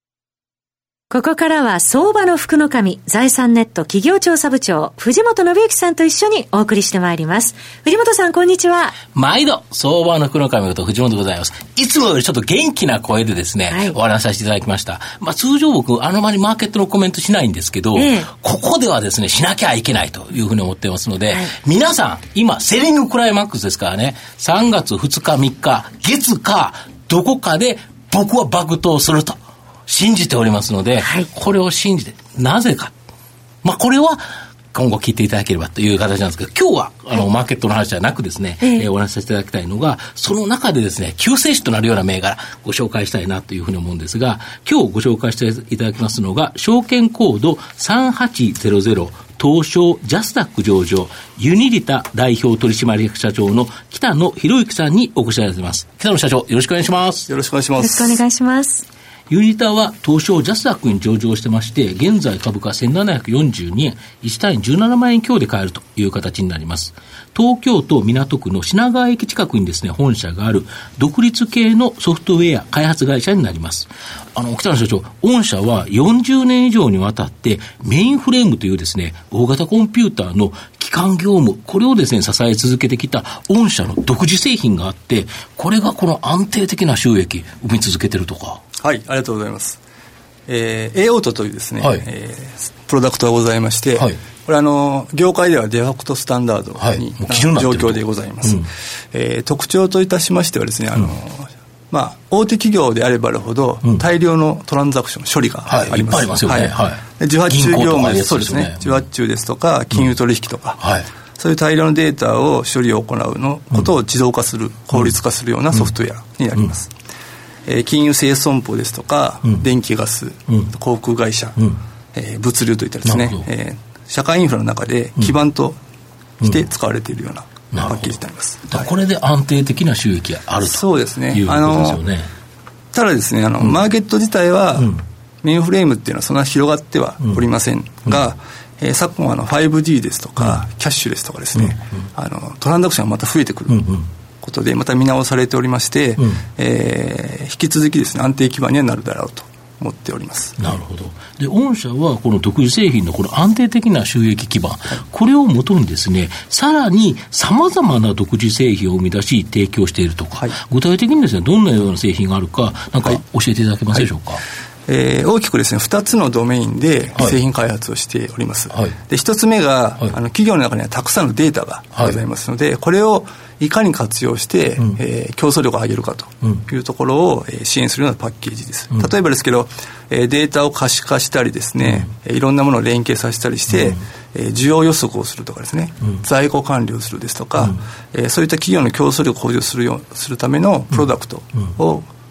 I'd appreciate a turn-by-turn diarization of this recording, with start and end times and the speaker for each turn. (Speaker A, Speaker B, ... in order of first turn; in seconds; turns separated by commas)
Speaker A: 1.1-9.0, Speaker B: 9.1-32.9, Speaker A: 13.7-14.0, Speaker A: 17.9-18.3, Speaker A: 31.0-31.3, Speaker B: 33.6-34.2, Speaker B: 34.7-57.3, Speaker C: 57.3-58.2, Speaker A: 57.8-58.9, Speaker B: 59.3-88.6, Speaker C: 88.8-89.8, Speaker C: 90.5-110.8, Speaker B: 96.8-98.7, Speaker B: 105.7-109.0, Speaker B: 110.8-111.1, Speaker C: 111.4-116.9, Speaker C: 117.7-121.6, Speaker C: 122.1-125.8, Speaker B: 123.0-123.4, Speaker C: 126.4-128.9, Speaker B: 127.7-128.1, Speaker B: 128.7-132.3, Speaker C: 130.6-132.0, Speaker C: 132.9-143.9, Speaker B: 143.7-144.0, Speaker C: 144.4-150.7, Speaker B: 150.6-164.4, Speaker C: 164.9-192.1